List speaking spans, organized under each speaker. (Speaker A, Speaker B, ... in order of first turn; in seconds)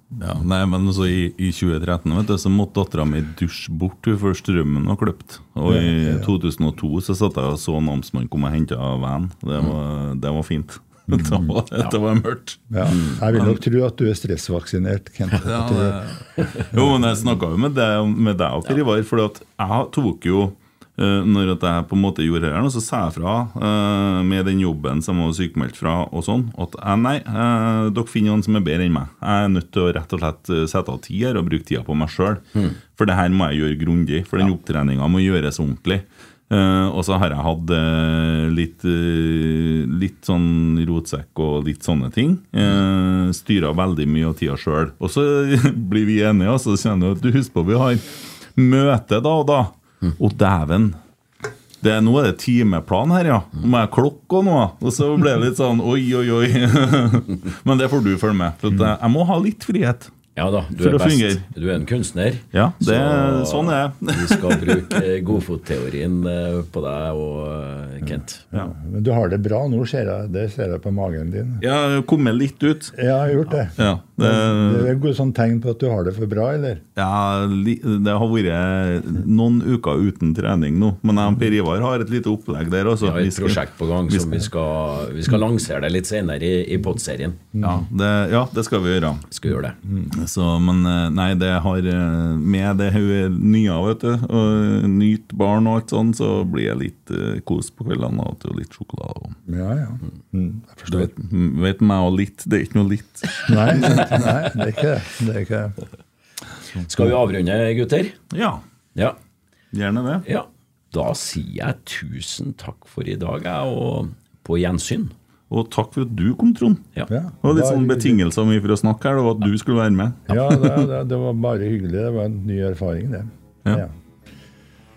Speaker A: 0.2-13.6, 15.3-51.0, 51.8-60.1, 60.7-61.4, 62.5-65.0, 71.6-73.0, 73.8-74.9, 77.0-84.5, 87.6-89.3, 90.1-99.4, 100.9-104.3, 108.3-108.6, 109.7-110.2, 115.5-120.9
Speaker B: 5.7-6.3, 11.1-11.5, 12.7-16.9, 68.5-71.6, 72.9-76.8, 89.8-90.1, 99.5-101.1, 103.4-105.8, 117.1-118.2, 120.3-123.9
Speaker C: 12.9-13.2, 60.3-68.4, 83.0-87.5, 89.3-89.8, 106.8-108.2, 110.2-115.1